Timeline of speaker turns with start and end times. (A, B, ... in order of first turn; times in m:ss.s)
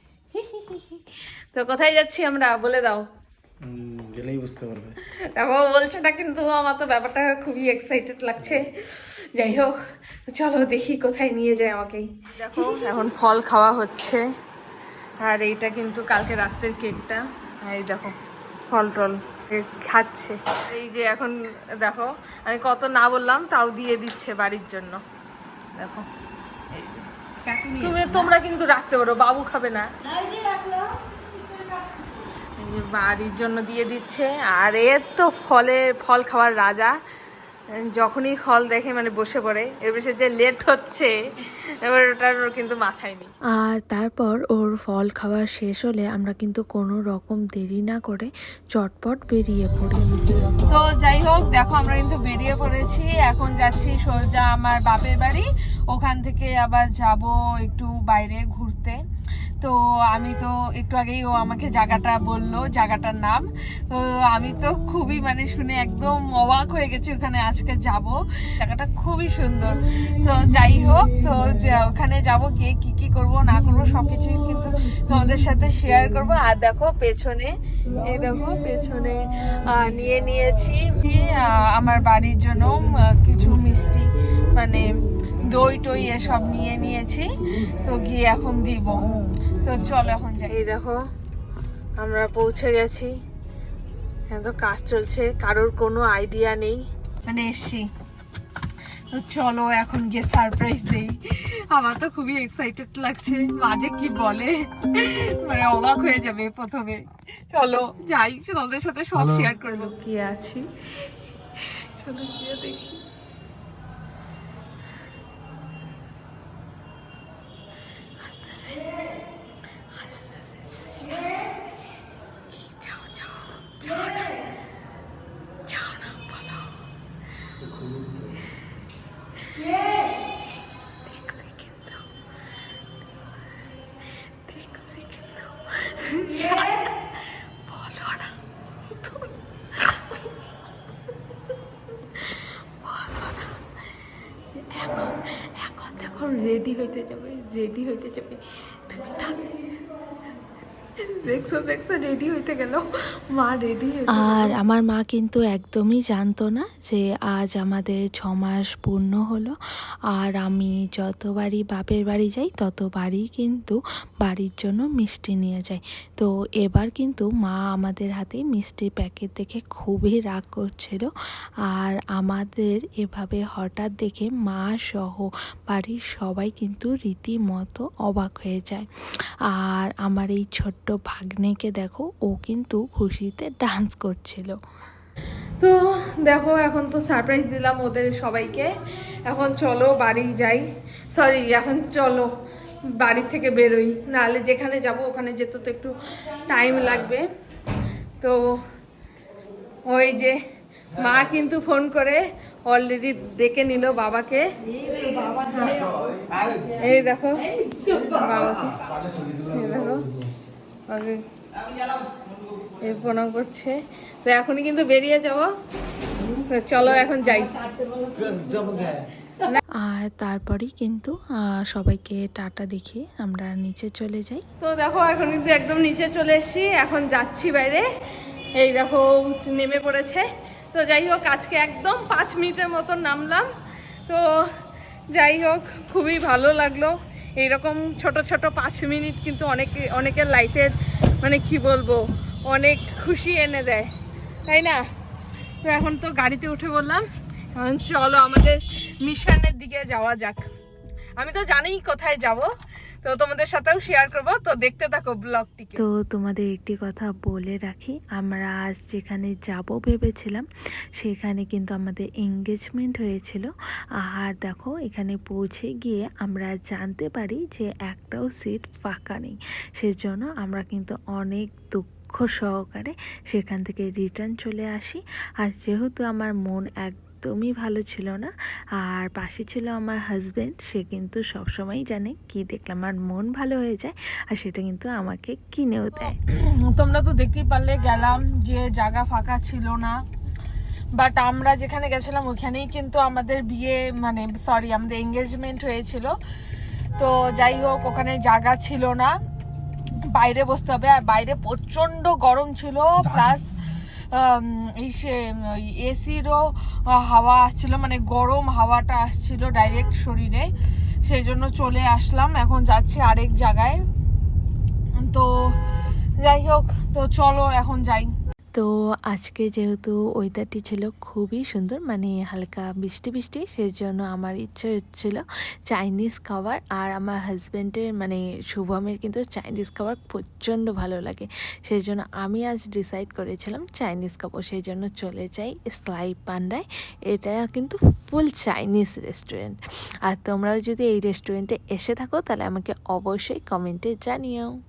0:00.3-0:03.0 A
0:03.6-0:05.0 B
0:05.2-0:09.8 A
0:10.3-0:14.2 A
0:15.2-0:18.2 A
0:18.7-0:25.0 A
0:25.8-0:26.1 A
0:27.7-0:29.9 A
0:32.6-0:37.0 A
0:37.9-0:41.1 A
0:41.8-0:43.3 A
0:43.5-0:50.5 C
0:50.7-0:59.0 A
0:59.6-1:24.9 A
1:25.4-1:31.0 A
1:32.0-1:33.1 A
1:34.3-1:37.9 A
1:39.1-1:53.0 A
1:58.2-1:58.9 A
2:00.0-2:01.4 A
2:02.6-2:04.4 A
2:05.7-2:06.7 A
2:07.6-2:08.5 B
2:11.1-2:12.0 A
2:14.5-2:16.9 A
2:17.7-2:18.3 A
2:19.0-2:20.0 A
2:22.8-2:23.6 A
2:24.7-2:29.6 A
2:31.2-2:34.5 A
2:34.1-2:39.6 C
2:40.1-2:51.1 C
2:51.7-2:58.9 C
2:59.5-3:04.6 C
3:05.6-3:08.7 A
3:09.3-3:12.3 A
3:13.0-3:16.0 A
3:16.5-3:17.3 A
3:19.9-3:20.4 A
3:20.9-3:24.5 A
3:25.4-3:25.9 A
3:26.6-3:30.1 A
3:30.9-3:31.2 A
3:32.8-3:35.5 A
3:36.4-3:37.5 A
3:38.2-3:39.6 A
3:39.8-3:44.4 C
3:44.6-3:47.9 A
3:48.6-3:53.5 A
3:54.1-3:54.5 A
3:55.1-4:03.9 A
4:04.5-4:04.8 A
4:05.6-4:10.5 A
4:11.2-4:12.5 A
4:13.0-4:15.8 A
4:15.8-4:23.5 C
4:24.0-4:46.2 C
4:46.1-4:50.0 A
4:51.0-4:56.2 A
4:57.0-4:59.2 A
5:00.0-5:03.5 A
5:04.1-5:10.5 A
5:11.0-5:13.8 A
5:15.0-5:15.3 A
5:16.2-5:18.1 A
5:18.6-5:44.5 C